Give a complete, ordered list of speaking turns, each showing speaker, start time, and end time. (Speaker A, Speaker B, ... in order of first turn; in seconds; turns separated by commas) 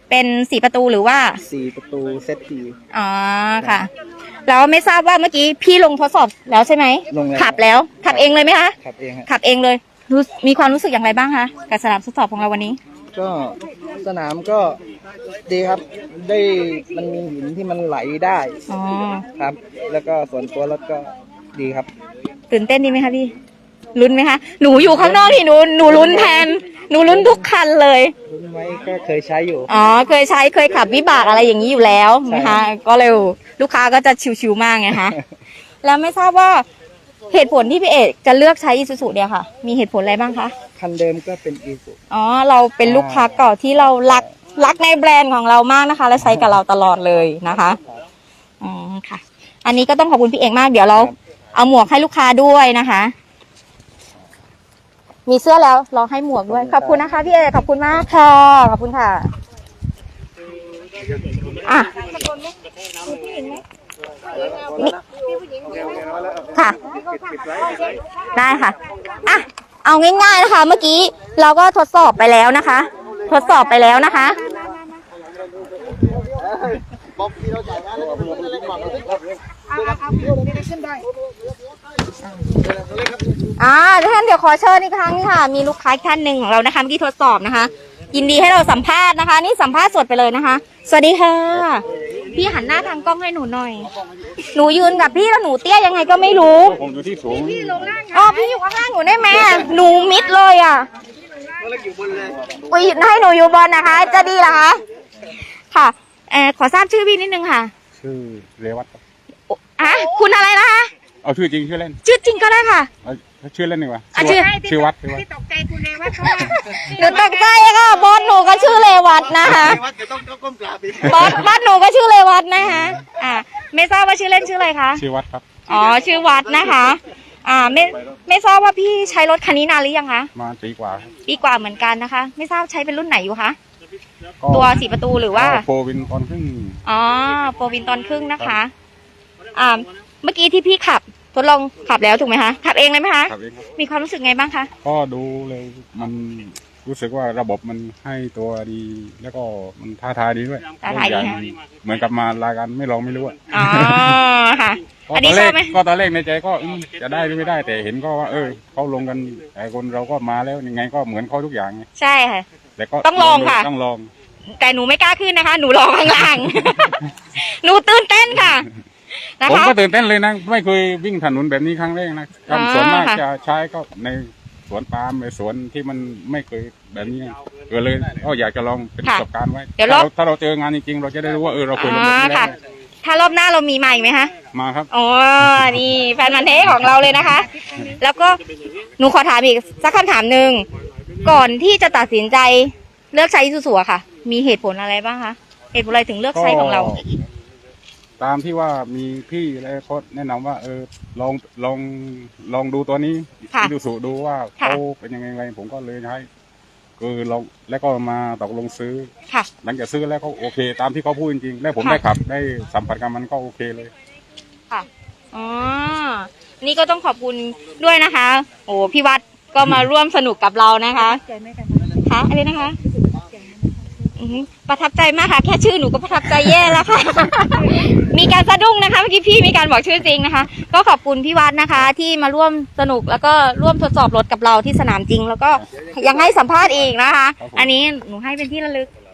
Speaker A: 0.1-1.4, Speaker B: 1.4-2.8, Speaker A: 2.9-3.9, Speaker A: 4.5-8.8, Speaker B: 7.1-9.3, Speaker A: 9.2-12.8, Speaker B: 13.1-14.8, Speaker B: 15.5-18.6, Speaker A: 18.7-19.2, Speaker B: 19.4-21.9, Speaker A: 22.5-23.3, Speaker A: 23.9-28.1, Speaker B: 24.7-26.5, Speaker B: 27.1-27.4, Speaker B: 28.2-29.7, Speaker A: 29.7-35.2, Speaker B: 32.2-32.6, Speaker B: 34.9-35.2, Speaker A: 35.8-36.6, Speaker A: 37.3-40.5, Speaker B: 40.8-42.0, Speaker A: 42.1-47.8, Speaker B: 42.8-43.3, Speaker B: 44.0-44.3, Speaker B: 46.2-46.5, Speaker A: 48.6-53.1, Speaker A: 55.2-59.3, Speaker B: 56.5-57.0, Speaker A: 61.6-61.9, Speaker C: 63.0-63.6, Speaker C: 65.4-66.0, Speaker A: 68.3-74.4, Speaker C: 74.4-74.8, Speaker B: 78.3-78.8, Speaker C: 79.7-81.0, Speaker A: 83.6-93.9, Speaker A: 94.5-96.8, Speaker D: 96.6-97.9, Speaker C: 97.4-98.6, Speaker A: 98.1-100.9, Speaker C: 101.2-102.1, Speaker A: 102.6-104.8, Speaker A: 105.7-107.7, Speaker D: 107.9-109.0, Speaker A: 109.5-110.9, Speaker D: 111.2-112.0, Speaker A: 112.0-112.9, Speaker D: 113.0-115.3, Speaker A: 114.1-114.5, Speaker C: 115.4-116.5, Speaker A: 116.2-119.8, Speaker B: 119.9-120.9, Speaker A: 121.0-125.0, Speaker D: 122.6-123.0, Speaker D: 124.9-125.4, Speaker A: 125.7-130.3, Speaker D: 130.3-131.1, Speaker A: 131.2-133.6, Speaker D: 134.4-134.8, Speaker A: 134.5-135.6, Speaker D: 135.3-136.8, Speaker A: 136.8-138.7, Speaker A: 139.5-144.7, Speaker D: 143.3-143.6, Speaker D: 144.8-154.2, Speaker A: 150.8-151.4, Speaker A: 153.5-155.8, Speaker D: 155.1-161.8, Speaker A: 161.9-162.4, Speaker D: 162.8-164.1, Speaker A: 163.0-163.7, Speaker A: 164.5-169.8, Speaker D: 168.3-168.6, Speaker D: 169.4-182.5, Speaker A: 172.5-173.2, Speaker A: 179.8-180.1, Speaker A: 181.8-182.5, Speaker A: 183.0-184.3, Speaker D: 184.5-184.9, Speaker A: 184.9-188.4, Speaker D: 185.5-185.8, Speaker A: 189.0-190.7, Speaker A: 191.2-197.0, Speaker D: 196.3-197.0, Speaker D: 198.2-206.3, Speaker D: 207.0-209.1, Speaker D: 209.6-213.9, Speaker A: 214.7-221.2, Speaker C: 221.2-221.9, Speaker A: 222.0-222.8, Speaker A: 224.2-238.9, Speaker D: 237.4-237.7